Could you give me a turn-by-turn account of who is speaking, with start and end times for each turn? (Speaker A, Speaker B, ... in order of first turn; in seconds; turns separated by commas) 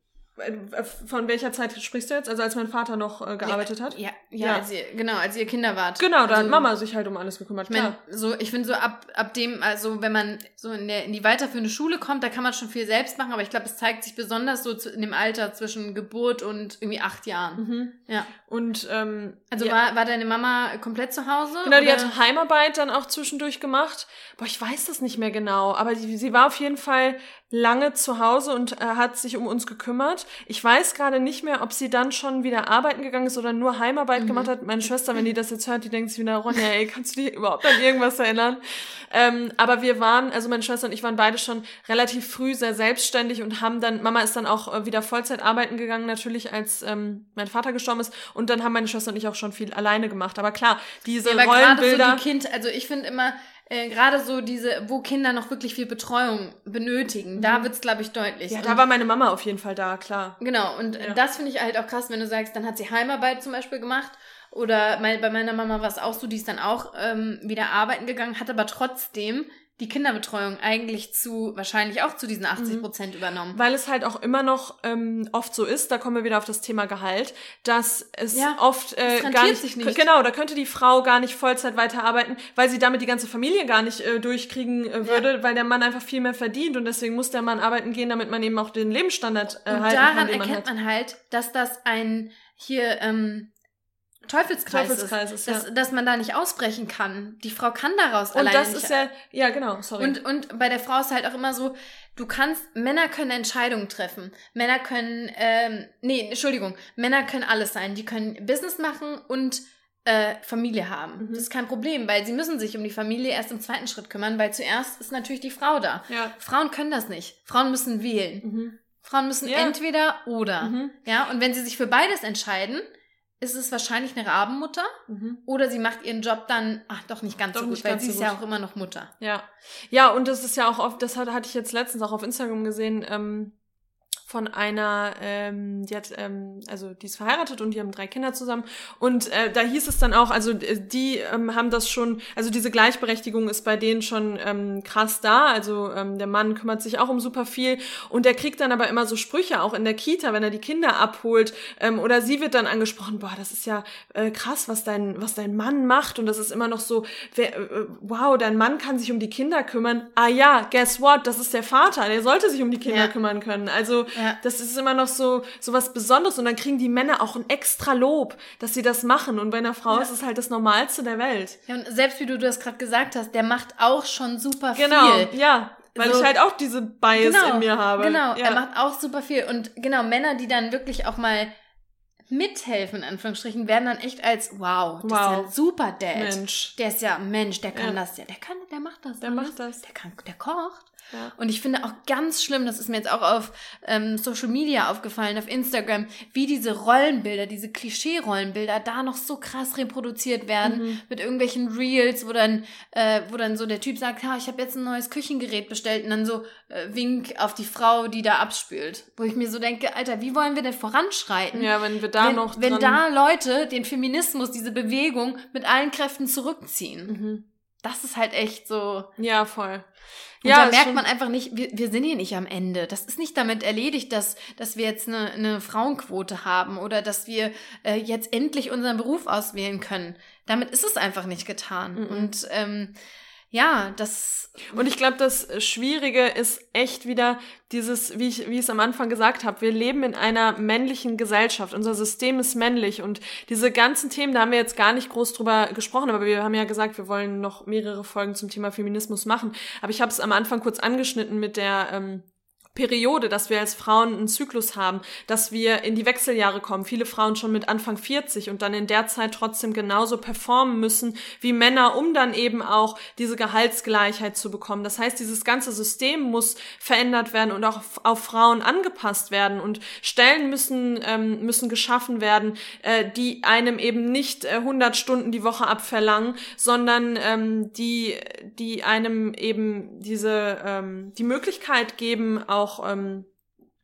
Speaker A: 0.4-4.7, Speaker B: 3.4-6.7, Speaker A: 6.0-8.0, Speaker B: 7.7-18.3, Speaker A: 17.6-17.9, Speaker A: 18.5-19.8, Speaker B: 19.5-22.1, Speaker A: 21.6-52.2, Speaker B: 34.2-34.5, Speaker B: 51.2-58.8, Speaker A: 57.4-57.7, Speaker A: 58.5-60.4, Speaker B: 60.4-73.6, Speaker A: 72.6-72.9, Speaker A: 73.5-90.7, Speaker B: 78.3-80.0, Speaker B: 89.7-93.5, Speaker B: 94.3-99.1, Speaker A: 94.7-95.7, Speaker A: 98.3-100.2, Speaker B: 100.0-118.5, Speaker A: 111.2-111.5, Speaker A: 116.1-116.3, Speaker A: 118.4-118.8, Speaker B: 119.0-122.9, Speaker A: 119.5-119.8, Speaker A: 120.6-120.9, Speaker B: 123.4-124.9, Speaker A: 125.1-125.4, Speaker B: 125.5-129.1, Speaker A: 127.5-128.4, Speaker A: 129.2-133.5, Speaker A: 134.3-171.6, Speaker B: 162.8-163.1, Speaker B: 164.1-164.4, Speaker B: 171.7-175.3, Speaker A: 174.7-178.6, Speaker B: 176.0-176.3, Speaker B: 177.1-181.5, Speaker B: 182.3-217.2, Speaker A: 185.0-185.5, Speaker A: 186.1-186.8, Speaker A: 189.2-189.8, Speaker A: 200.6-201.0, Speaker A: 211.5-213.0, Speaker A: 217.1-217.4, Speaker B: 217.8-219.1, Speaker A: 219.2-219.9, Speaker A: 220.4-221.0, Speaker B: 220.4-232.9, Speaker A: 232.0-232.3, Speaker B: 233.5-234.8, Speaker A: 234.7-283.3